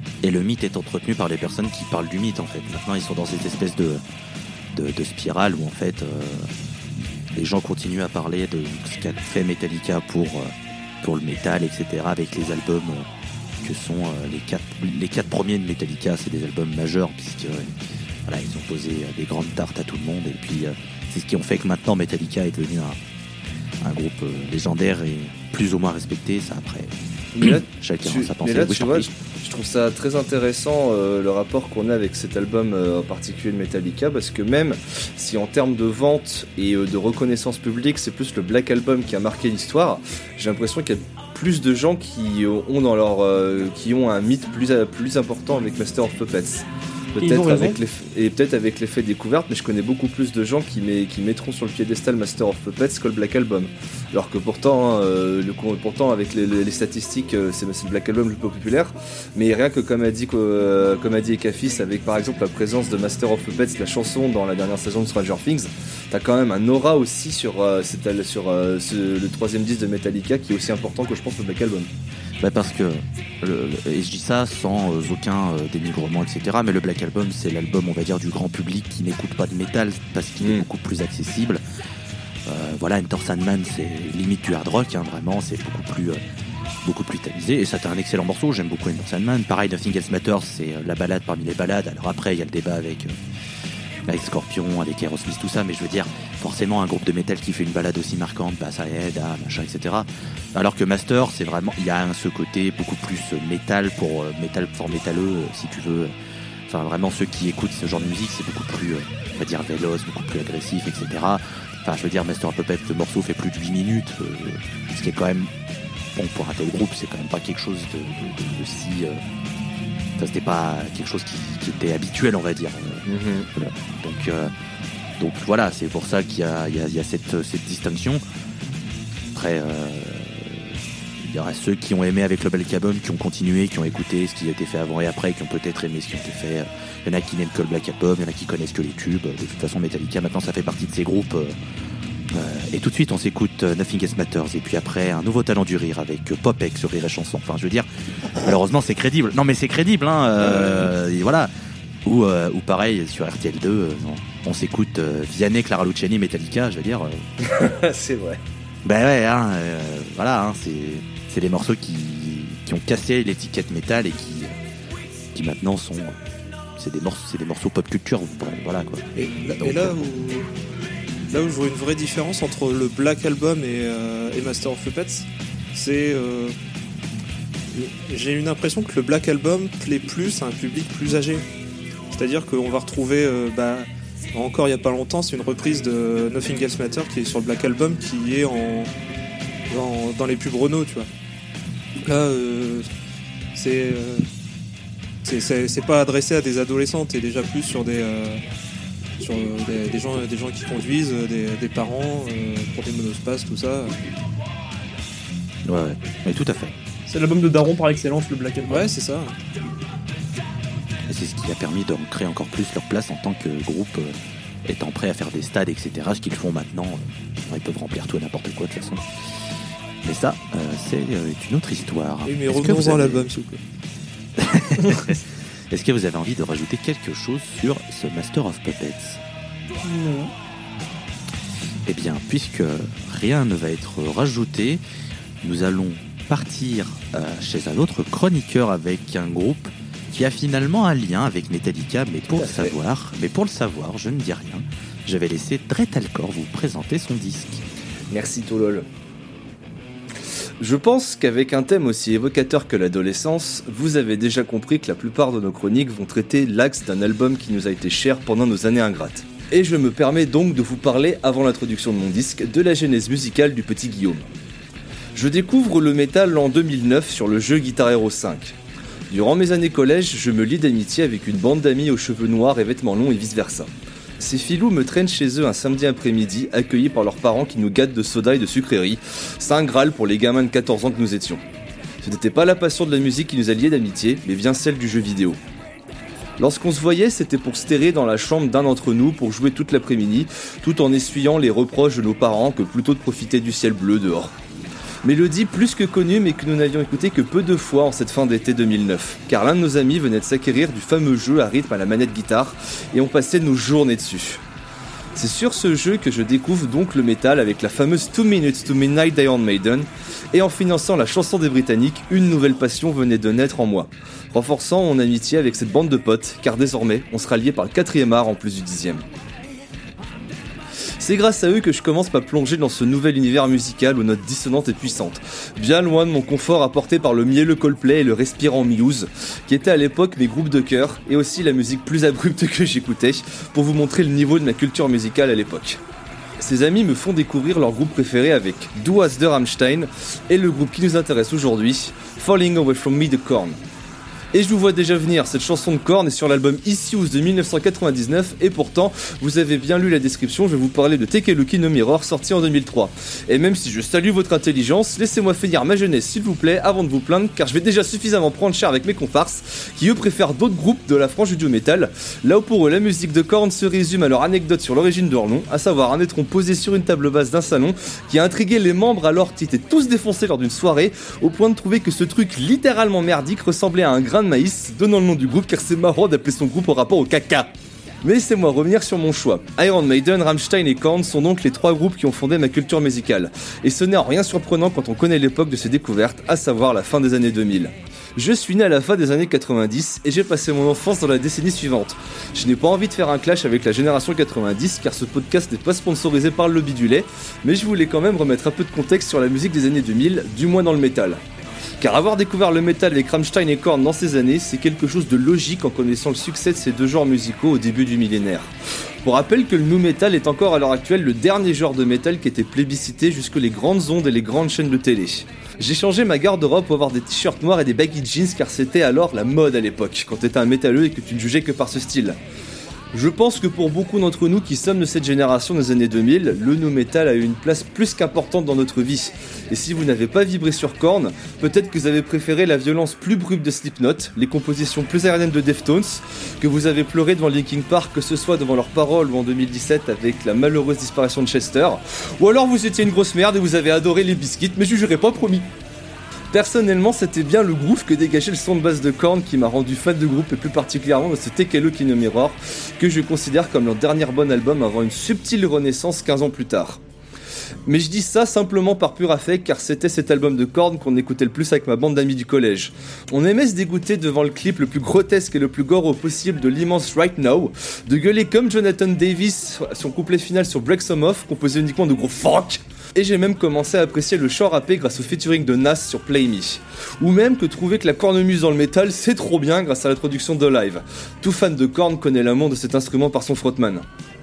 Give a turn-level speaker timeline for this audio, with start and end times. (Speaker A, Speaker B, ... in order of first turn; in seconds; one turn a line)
Speaker A: 0.2-4.0
Speaker A: 4.7-6.5
Speaker A: 7.3-13.1
Speaker A: 13.6-17.7
Speaker A: 18.3-23.0
Speaker A: 23.8-29.1
Speaker B: 27.4-71.9
Speaker C: 47.2-47.8
Speaker A: 72.4-81.6
Speaker B: 80.4-80.7
Speaker A: 82.5-86.2
Speaker A: 86.8-93.2
Speaker A: 94.1-106.1
Speaker A: 106.7-115.5
Speaker A: 116.2-119.2
Speaker A: 120.2-124.5
Speaker B: 123.1-123.5
Speaker A: 125.2-128.2
Speaker A: 129.3-141.6
Speaker A: 142.3-147.9
Speaker A: 148.4-151.5
Speaker B: 150.5-150.8
Speaker A: 152.0-157.3
Speaker B: 157.4-158.4
Speaker A: 158.8-164.6
Speaker A: 165.3-166.2
Speaker A: 166.8-170.0
Speaker D: 169.2-170.5
Speaker D: 171.3-176.6
Speaker D: 177.7-181.4
Speaker D: 182.1-188.9
Speaker D: 189.7-191.1
Speaker D: 192.1-192.9
Speaker D: 193.5-194.3
Speaker D: 195.2-198.4
Speaker D: 199.2-204.0
Speaker A: 205.7-206.7
Speaker C: 207.1-208.9
Speaker D: 208.7-209.4
Speaker A: 211.1-219.1
Speaker A: 220.0-223.3
Speaker D: 222.2-223.6
Speaker A: 224.4-229.2
Speaker C: 229.8-230.3
Speaker A: 231.9-234.8
Speaker A: 235.4-247.6
Speaker B: 242.4-242.7
Speaker B: 248.1-248.9
Speaker B: 250.6-264.3
Speaker B: 265.1-268.6
Speaker B: 269.1-273.7
Speaker B: 274.2-281.4
Speaker B: 282.0-285.4
Speaker B: 286.4-294.3
Speaker B: 295.0-304.4
Speaker B: 305.1-319.0
Speaker B: 321.0-335.8
Speaker B: 336.4-343.6
Speaker B: 344.3-377.5
Speaker B: 378.0-401.2
Speaker B: 401.8-408.5
Speaker B: 409.0-422.2
Speaker B: 422.9-445.5
Speaker B: 446.3-456.8
Speaker B: 457.7-483.9